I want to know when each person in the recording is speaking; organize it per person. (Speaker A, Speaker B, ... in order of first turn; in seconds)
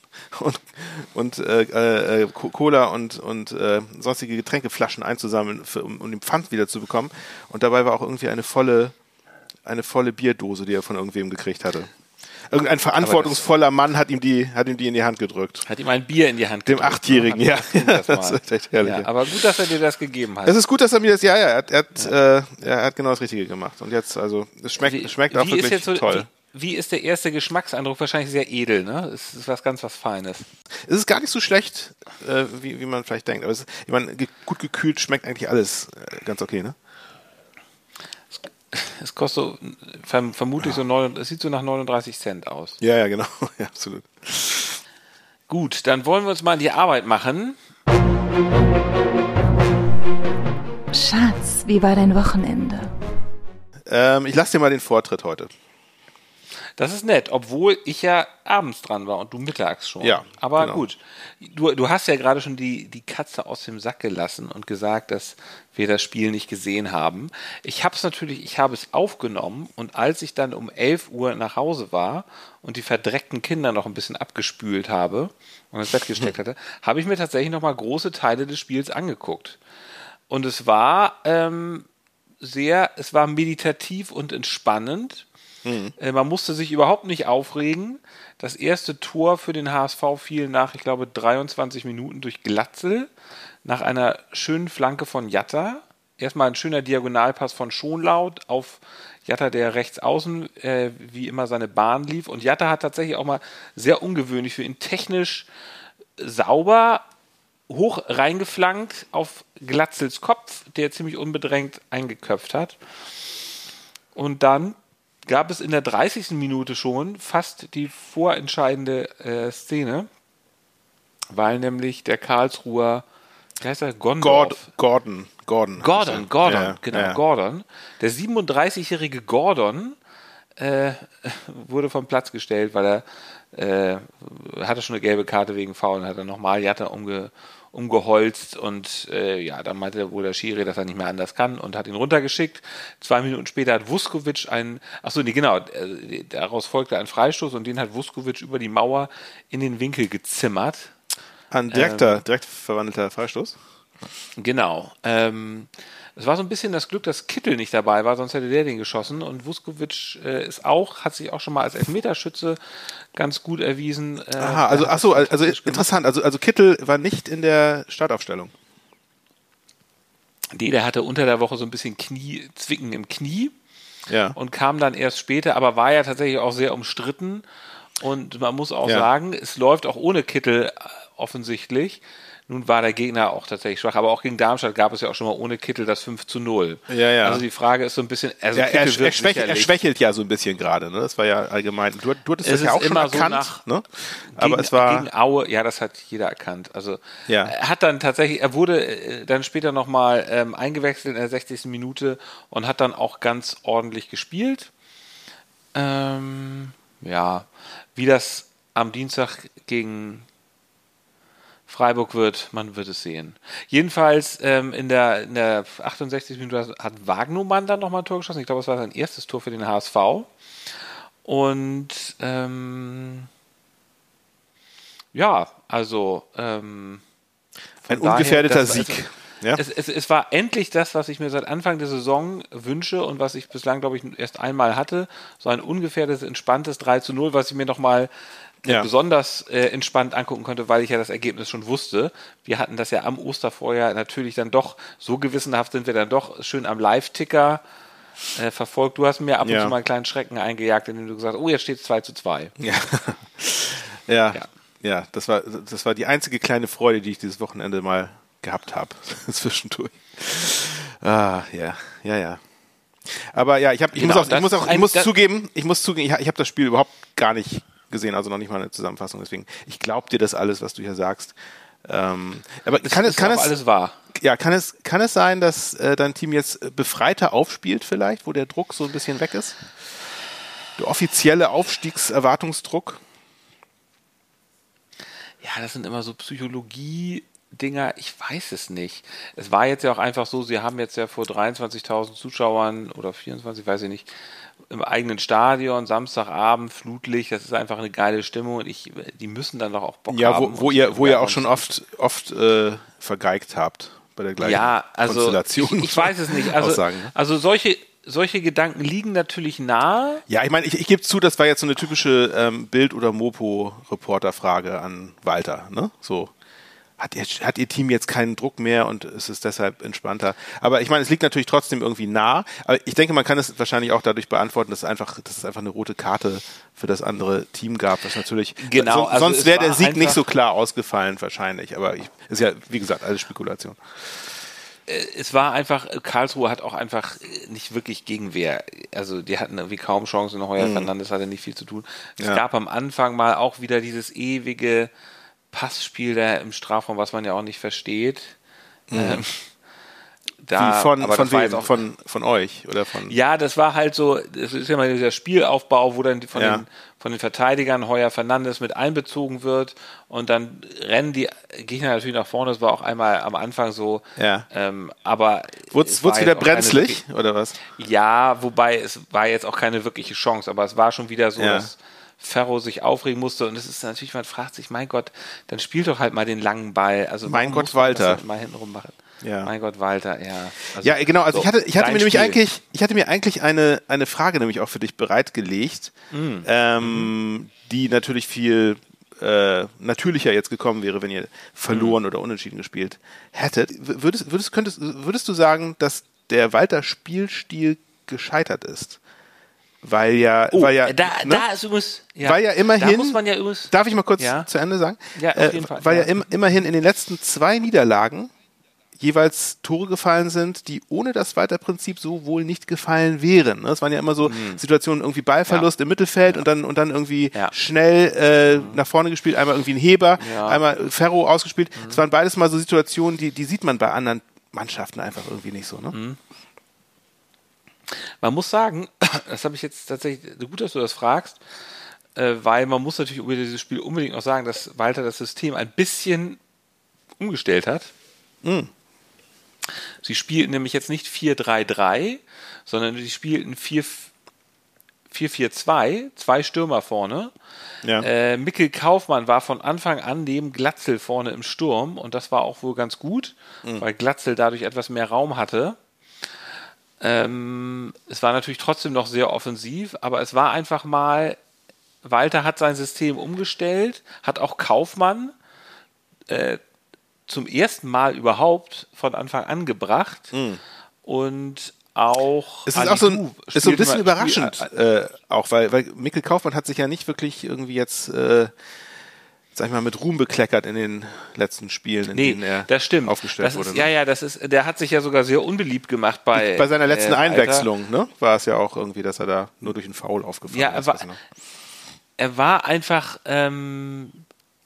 Speaker A: 0.2-8.9, 9.6-11.9, 12.5-15.6, 16.6-19.5, 20.4-26.3, 30.8-36.8, 42.8-44.8, 53.9-55.5, 60.0-60.9, 85.6-85.9, 124.2-127.2, 151.5-153.6, 164.4-168.5, 174.1-174.4, 186.9-187.4, 188.5-195.1, 197.3-197.5, 227.9-229.6, 238.6-238.9, 249.4-249.7, 252.6-262.4, 263.0-273.5, 274.1-279.6, 280.8-283.0, 300.1-307.1, 310.3-316.3, 317.0-334.2, 340.6-340.9, 348.9-349.2, 350.6-353.1, 356.3-356.6, 364.2-364.5, 365.7-367.6, 371.4-371.7, 377.2-378.2, 379.2-379.5, 380.8-399.0, 399.8-401.5, 402.2-408.3, 409.0-425.9, 438.4-438.7, 470.3-470.6, 472.6-478.5, 479.5-483.9, 486.3-491.2
Speaker B: 13.0-13.4, 15.6-20.6, 24.8-30.4, 38.7-42.8, 45.5-47.6, 56.8-79.6, 80.3-81.9, 82.4-85.2, 86.0-93.1, 93.6-105.5, 106.2-107.0, 107.7-112.8, 114.1-120.1, 121.3-123.0, 123.6-124.7, 125.8-130.0, 130.6-150.9, 151.7-152.2, 154.4-162.6, 163.1-165.9, 170.5-173.5, 174.3-177.4, 178.0-189.7, 192.4-193.6, 194.3-204.7, 205.7-210.2, 211.7-220.3, 221.2-223.3, 225.1-227.0, 227.8-229.0, 229.5-238.1, 238.6-247.6, 248.3-252.5, 263.9-265.1, 272.8-274.0, 285.4-294.1, 294.7-301.6, 304.4-310.2, 328.6-330.2, 334.9-344.9, 345.5-348.4, 348.9-349.4, 350.4-351.8, 353.1-367.0, 367.7-382.4, 386.1-387.1, 391.7-391.9, 400.5-404.5, 405.1-406.2, 414.2-414.6, 418.5-418.8, 420.2-420.6, 425.9-426.2, 428.2-431.4, 432.1-436.4, 437.2-437.9, 440.0-444.1, 445.1-447.3, 448.0-455.8, 457.0-461.4, 462.0-465.3, 466.3-466.6, 467.3-470.3, 471.0-474.6, 482.1-487.7, 490.5-491.1, 492.2-494.2
Speaker C: 50.9-52.9